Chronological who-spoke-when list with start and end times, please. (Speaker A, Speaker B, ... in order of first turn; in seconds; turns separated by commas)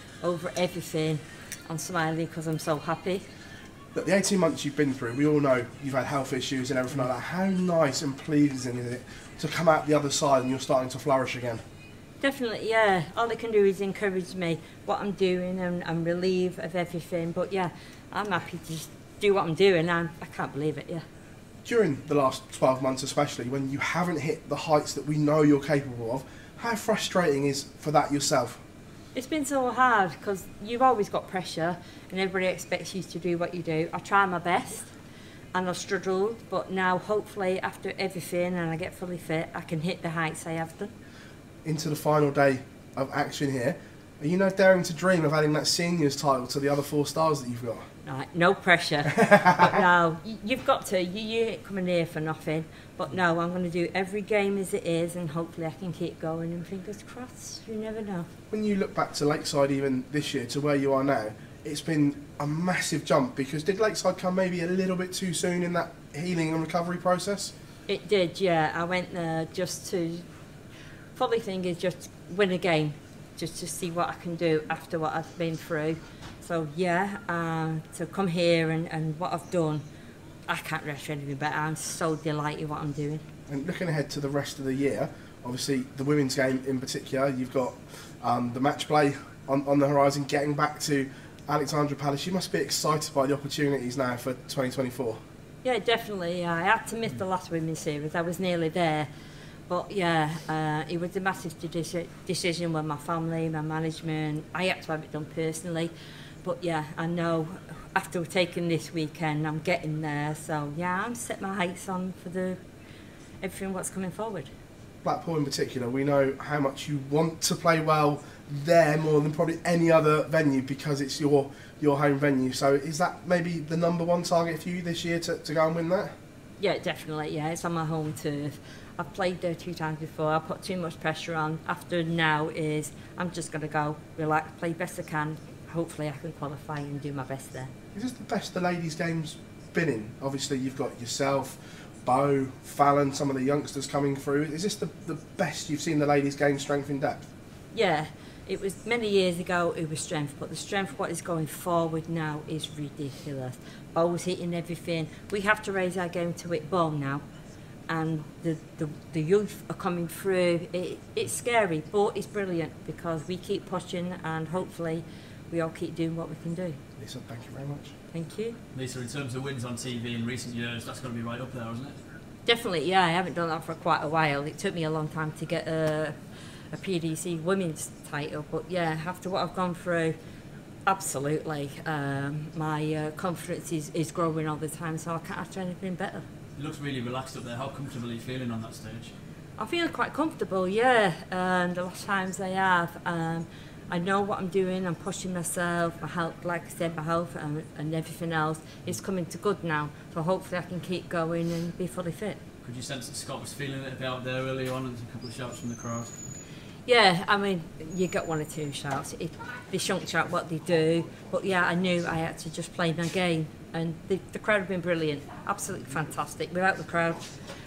Speaker A: 0.2-3.2, Speaker B: 3.9-11.6, Speaker A: 12.2-21.0, Speaker B: 21.6-28.6, Speaker A: 29.1-34.9, Speaker A: 35.5-40.9, Speaker B: 41.6-47.9, Speaker A: 48.0-58.3, Speaker B: 58.5-67.5, Speaker A: 67.9-70.2, Speaker A: 71.1-79.8, Speaker A: 80.5-83.2, Speaker B: 83.5-95.2, Speaker A: 95.6-99.1, Speaker A: 99.7-105.9, Speaker A: 106.4-112.6, Speaker A: 113.4-114.5, Speaker B: 115.0-126.1, Speaker A: 126.6-137.7, Speaker B: 137.9-147.2, Speaker A: 147.7-157.2, Speaker A: 157.9-166.8, Speaker B: 167.0-167.9, Speaker A: 168.1-168.6, Speaker C: 168.7-172.0, Speaker A: 172.5-180.2, Speaker A: 180.9-186.2, Speaker C: 186.6-189.1, Speaker A: 189.6-202.4, Speaker C: 202.6-206.1, Speaker A: 206.9-217.3